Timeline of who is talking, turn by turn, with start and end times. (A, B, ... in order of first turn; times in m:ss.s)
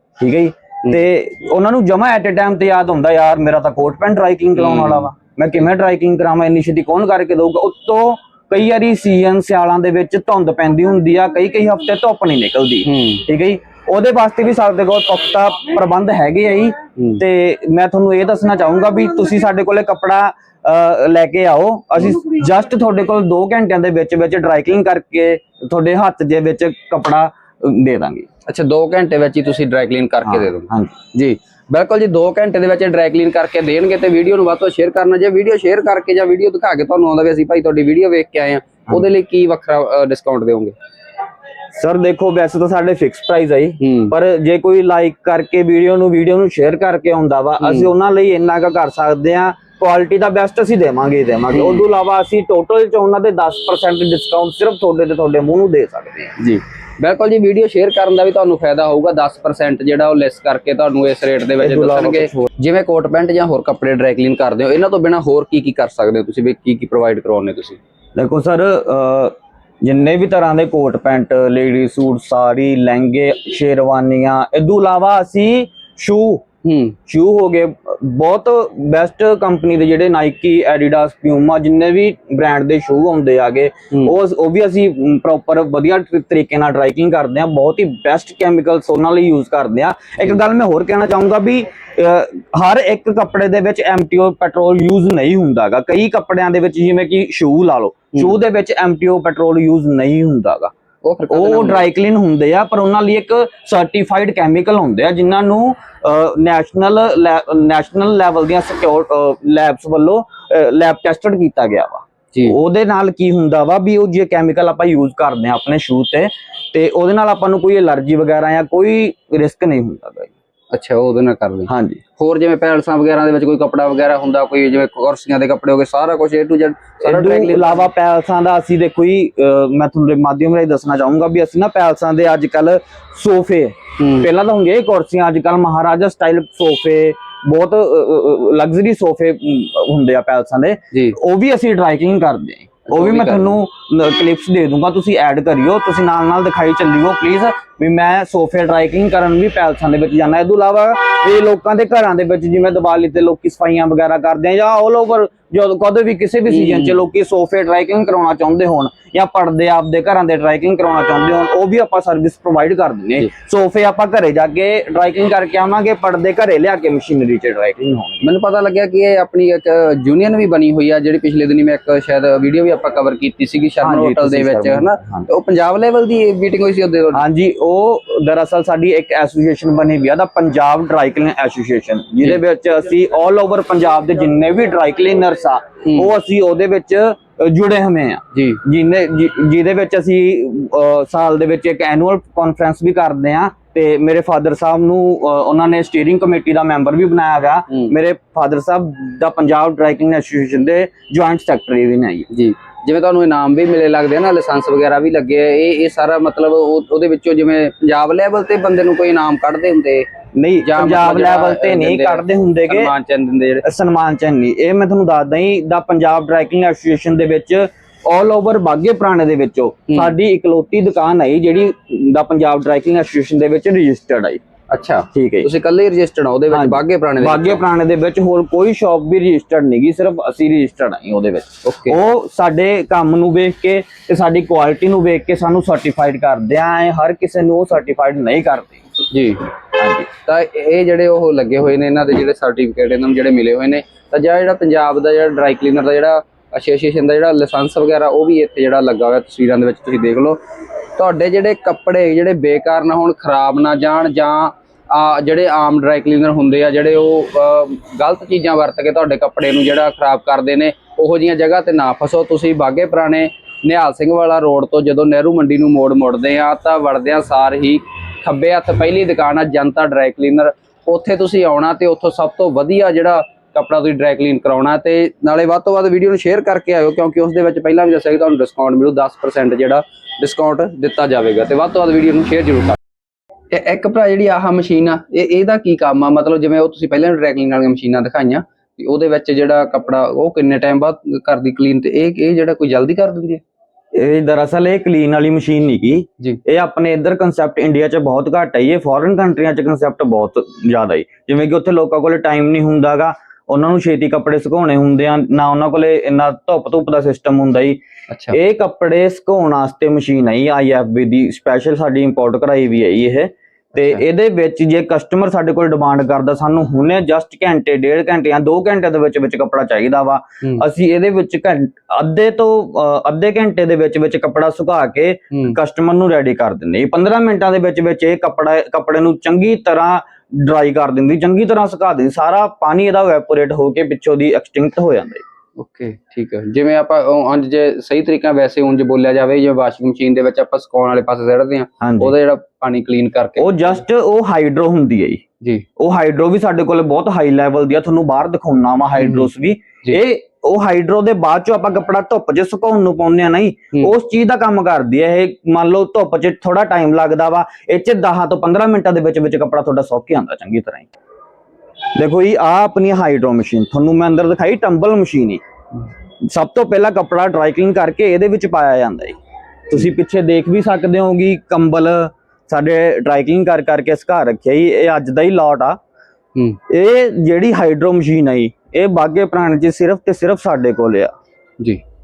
0:00.2-0:28.2 A
0:04.6-0:05.1 B
0:12.8-0:13.2 B
0:17.0-0:17.2 B
0:28.5-0:40.7 B
0:30.2-0:30.9 A
0:41.8-0:56.3 A
0:43.8-0:44.1 B
0:47.6-0:47.9 B
0:51.5-0:51.8 B
0:56.4-1:07.8 B
1:01.6-1:02.5 A
1:08.2-1:16.4 A
1:16.6-1:16.9 B
1:17.1-1:40.7 A
1:41.0-1:41.9 B
1:41.3-2:00.3 A
2:00.7-2:07.9 B
2:01.7-2:02.0 A
2:07.0-2:48.2 A
2:14.0-2:14.3 B
2:22.9-2:23.6 B
2:36.5-2:37.0 B
2:48.2-2:57.2 B
2:53.8-2:55.3 A
2:57.1-3:22.3 A
3:05.8-3:06.1 B
3:08.3-3:08.6 B
3:22.3-3:30.1 B
3:30.3-3:32.9 A
3:30.6-3:33.6 B
3:33.6-3:44.4 A
3:39.9-3:40.1 B
3:44.7-3:47.6 B
3:45.1-3:45.5 A
3:46.5-3:58.8 A
3:51.6-3:52.0 B
3:59.1-3:59.5 B
3:59.8-4:00.1 A
4:00.2-4:10.4 B
4:11.0-4:42.8 B
4:43.5-4:53.4 B
4:53.9-5:07.8 A
5:08.1-5:08.4 B
5:08.3-5:35.2 A
5:25.3-5:25.6 B
5:35.6-5:43.8 B
5:41.8-5:42.1 A
5:43.4-5:45.2 A
5:45.8-6:00.9 A
5:49.0-5:49.3 B
6:02.0-6:05.4 A
6:06.2-6:09.2 A
6:09.7-6:15.8 A
6:16.7-6:21.1 A